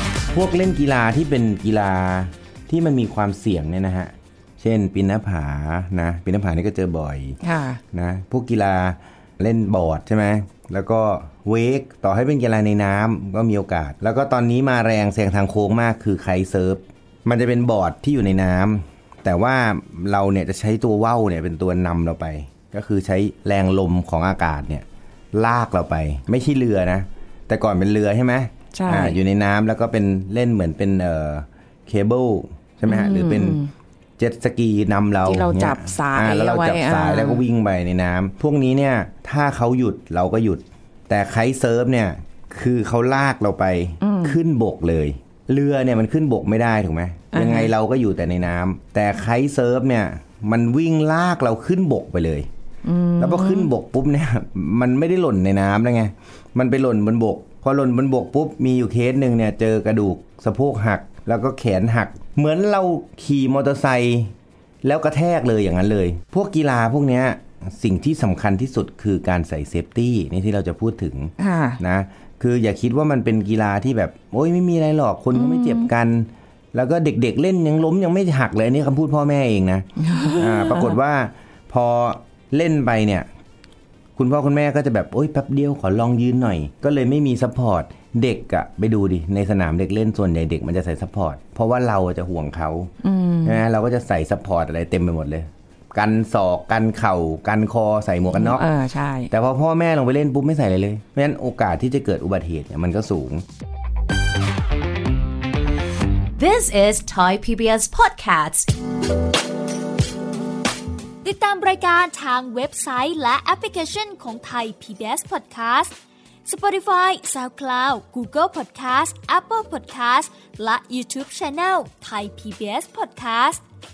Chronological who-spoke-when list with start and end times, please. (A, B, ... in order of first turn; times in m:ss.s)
0:00.3-0:07.4 A
0:07.4-0:07.8 B
0:07.9-0:33.6 A
0:28.7-0:29.2 B
0:32.8-0:33.7 B
0:34.2-0:52.5 A
0:35.2-0:37.4 B
0:44.0-0:44.4 B
0:47.3-0:47.7 B
0:52.8-0:53.7 B
0:53.2-1:23.3 A
1:11.4-1:11.8 B
1:15.3-1:15.9 B
1:20.0-1:21.0 B
1:24.2-1:32.9 A
1:33.0-1:33.6 B
1:33.5-1:38.6 A
1:38.3-1:39.3 B
1:39.3-1:43.4 A
1:46.4-1:48.7 C
1:51.2-1:55.9 D
1:56.4-2:03.6 D